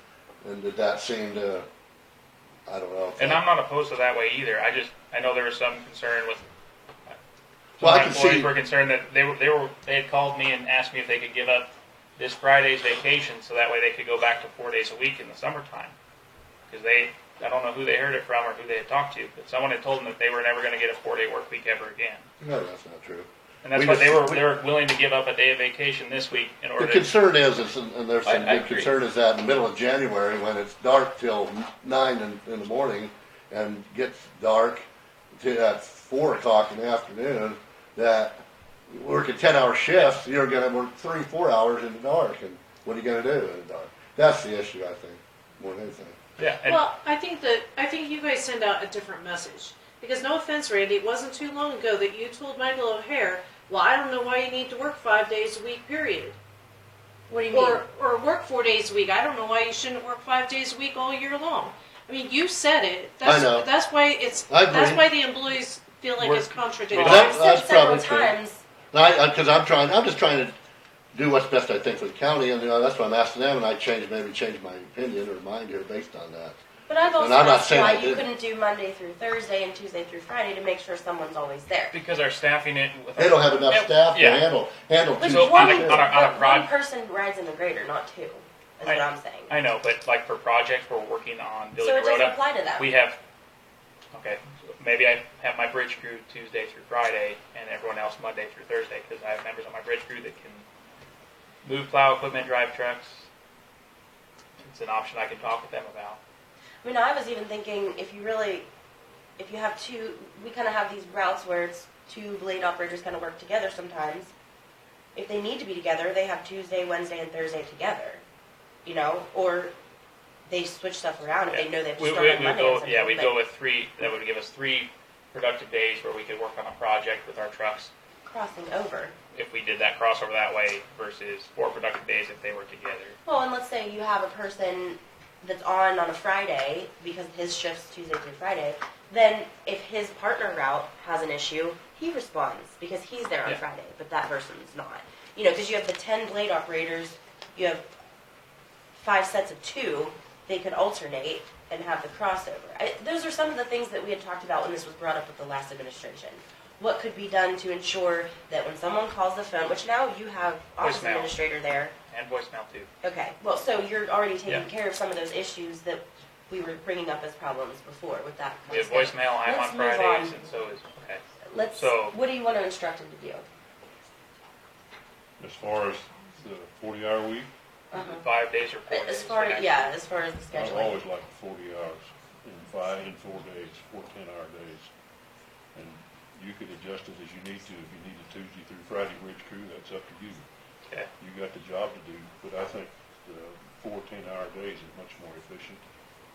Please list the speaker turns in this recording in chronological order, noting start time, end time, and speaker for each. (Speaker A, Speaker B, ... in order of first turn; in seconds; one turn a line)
Speaker A: 0.4-1.7
Speaker A: 2.7-3.4
Speaker B: 3.2-6.5
Speaker B: 7.8-15.9
Speaker A: 7.8-8.5
Speaker B: 16.7-22.3
Speaker A: 22.4-24.4
Speaker B: 23.6-27.1
Speaker A: 26.8-34.9
Speaker B: 28.2-28.9
Speaker A: 35.4-46.2
Speaker B: 46.4-46.8
Speaker C: 46.6-56.4
Speaker D: 57.3-57.8
Speaker C: 57.5-67.4
Speaker A: 63.2-63.7
Speaker A: 64.5-65.1
Speaker B: 66.2-66.5
Speaker A: 66.9-68.4
Speaker D: 67.0-68.6
Speaker B: 67.0-67.3
Speaker A: 68.9-70.5
Speaker A: 71.1-76.6
Speaker D: 76.9-81.9
Speaker A: 77.2-78.2
Speaker B: 81.9-84.5
Speaker A: 83.2-86.2
Speaker D: 85.2-89.5
Speaker B: 85.3-86.7
Speaker B: 88.8-93.2
Speaker D: 91.8-92.9
Speaker B: 94.1-100.7
Speaker B: 101.6-103.3
Speaker B: 104.6-106.2
Speaker D: 106.8-108.7
Speaker D: 109.4-114.3
Speaker D: 115.2-118.2
Speaker D: 118.8-119.7
Speaker D: 120.5-123.4
Speaker B: 121.5-127.9
Speaker D: 128.2-129.1
Speaker B: 129.3-133.2
Speaker D: 133.3-147.9
Speaker D: 149.0-161.9
Speaker B: 160.8-161.4
Speaker B: 162.1-162.9
Speaker D: 163.0-170.4
Speaker B: 168.7-171.2
Speaker D: 171.5-173.4
Speaker B: 171.7-172.2
Speaker E: 175.4-177.5
Speaker D: 177.9-178.3
Speaker B: 178.0-179.9
Speaker D: 178.9-181.0
Speaker E: 180.5-184.9
Speaker E: 185.7-190.5
Speaker E: 191.2-195.8